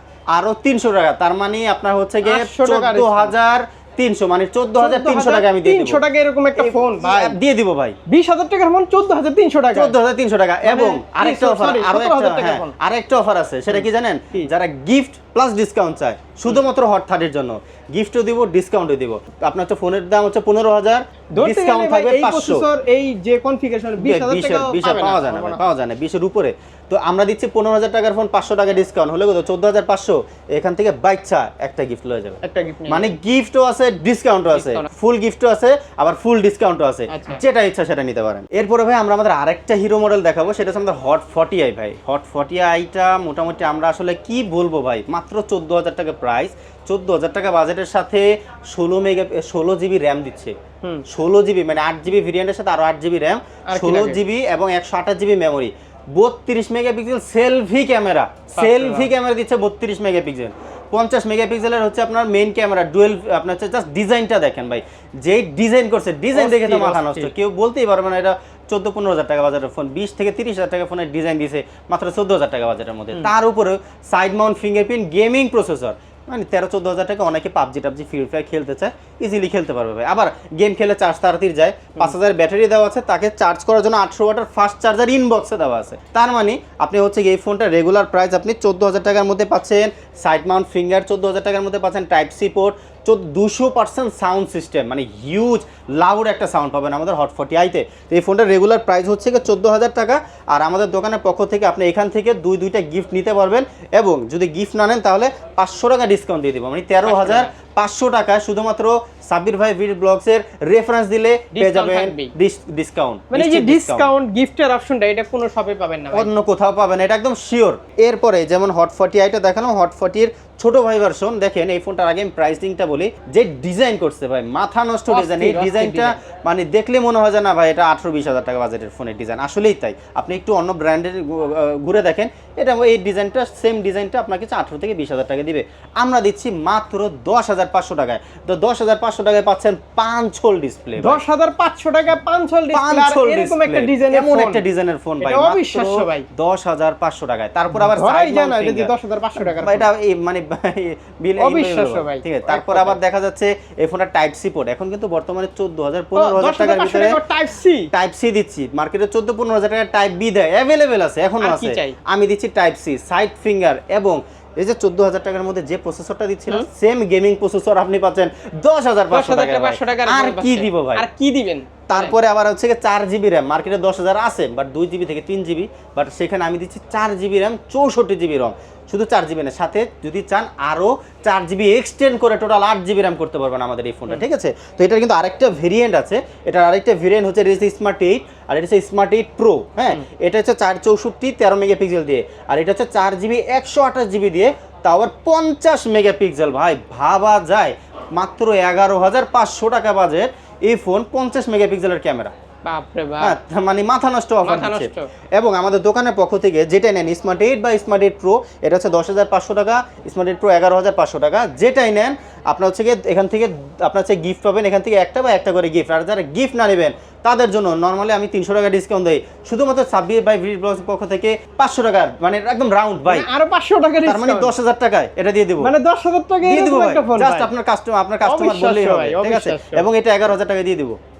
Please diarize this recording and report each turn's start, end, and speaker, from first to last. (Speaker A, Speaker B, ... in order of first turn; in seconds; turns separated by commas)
Speaker A: 0.3-6.0, Speaker B: 2.2-3.3, Speaker B: 4.8-7.4, Speaker A: 6.6-8.0, Speaker B: 8.1-9.9, Speaker A: 9.7-22.6, Speaker B: 10.6-12.7, Speaker B: 13.7-14.5, Speaker B: 21.3-25.6, Speaker A: 24.0-50.5, Speaker B: 32.4-33.1, Speaker B: 34.5-34.9, Speaker B: 37.1-37.4, Speaker A: 51.1-114.1, Speaker B: 53.7-54.2, Speaker B: 58.5-59.1, Speaker B: 66.3-67.3, Speaker B: 107.0-107.5, Speaker B: 111.5-112.3, Speaker B: 113.3-116.3, Speaker A: 116.1-141.2, Speaker B: 125.1-126.2, Speaker B: 141.0-144.6, Speaker A: 142.7-157.2, Speaker B: 145.2-146.3, Speaker B: 147.9-149.9, Speaker B: 151.4-153.0, Speaker B: 156.1-157.9, Speaker A: 157.9-171.1, Speaker B: 161.4-162.0, Speaker B: 169.1-172.1, Speaker A: 171.9-202.3, Speaker B: 202.6-203.3, Speaker A: 203.2-223.3, Speaker B: 204.4-205.1, Speaker B: 223.1-224.5, Speaker A: 224.0-225.7, Speaker B: 225.6-227.5, Speaker A: 226.4-231.0, Speaker B: 228.2-229.8